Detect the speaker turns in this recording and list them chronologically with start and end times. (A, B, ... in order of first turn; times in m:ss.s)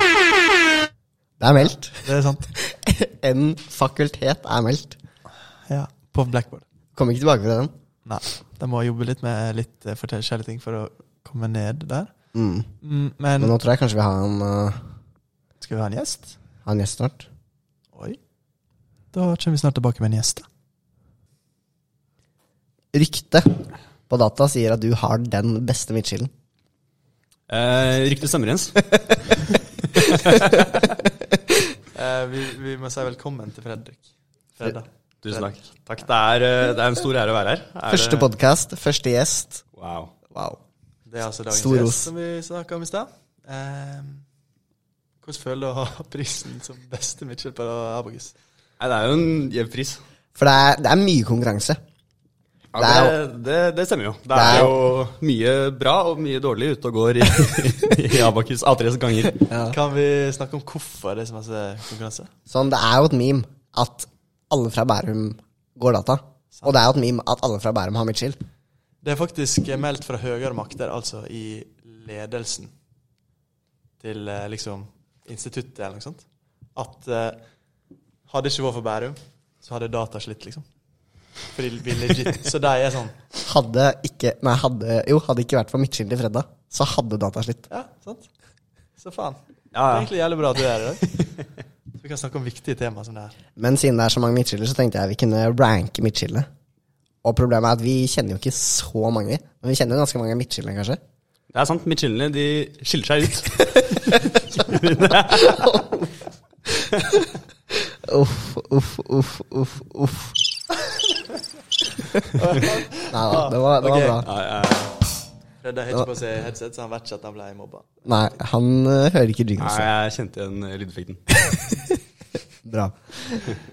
0:01.4-0:05.0 A
0:01.6-0:02.5 B
0:05.7-0:06.6 B
0:07.0-0:07.7 A
0:08.0-0:12.1 B
0:12.3-0:12.7 A
0:12.8-0:13.5 B
0:13.4-0:14.9 A
0:15.6-0:16.4 B
0:16.6-0:17.3 A
0:17.9-0:18.2 B
0:19.1-0:20.5 B
0:22.9-0:26.3 A
0:27.5-0:30.9 C
0:31.9-0:35.4 B
0:35.2-0:38.3 C
0:37.9-0:39.6 A
0:39.8-0:40.1 C
0:40.3-0:40.6 A
0:41.1-0:44.2 B
0:41.5-0:42.1 A
0:45.2-0:48.4 B
0:48.8-0:50.0 C
0:50.4-0:51.8 A
0:52.7-0:59.5 C
0:52.8-0:53.2 A
0:54.3-0:54.8 A
0:59.4-0:59.8 A
0:59.7-1:02.3 B
1:02.5-1:08.4 A
1:09.0-1:12.7 B
1:14.0-1:16.2 B
1:16.8-1:17.4 B
1:18.3-1:20.6 B
1:21.5-1:23.2 B
1:23.4-1:27.7 A
1:27.7-1:28.3 B
1:29.0-1:31.2 B
1:29.7-1:30.1 C
1:32.0-1:33.4 B
1:33.6-1:36.5 A
1:37.2-1:41.0 A
1:41.5-1:45.8 C
1:45.3-1:46.1 A
1:47.1-1:50.4 A
1:52.3-1:54.2 B
1:53.1-1:54.3 A
1:54.2-1:55.0 C
1:55.6-1:57.9 B
1:58.0-1:59.9 A
1:59.6-2:01.2 C
2:02.6-2:03.6 A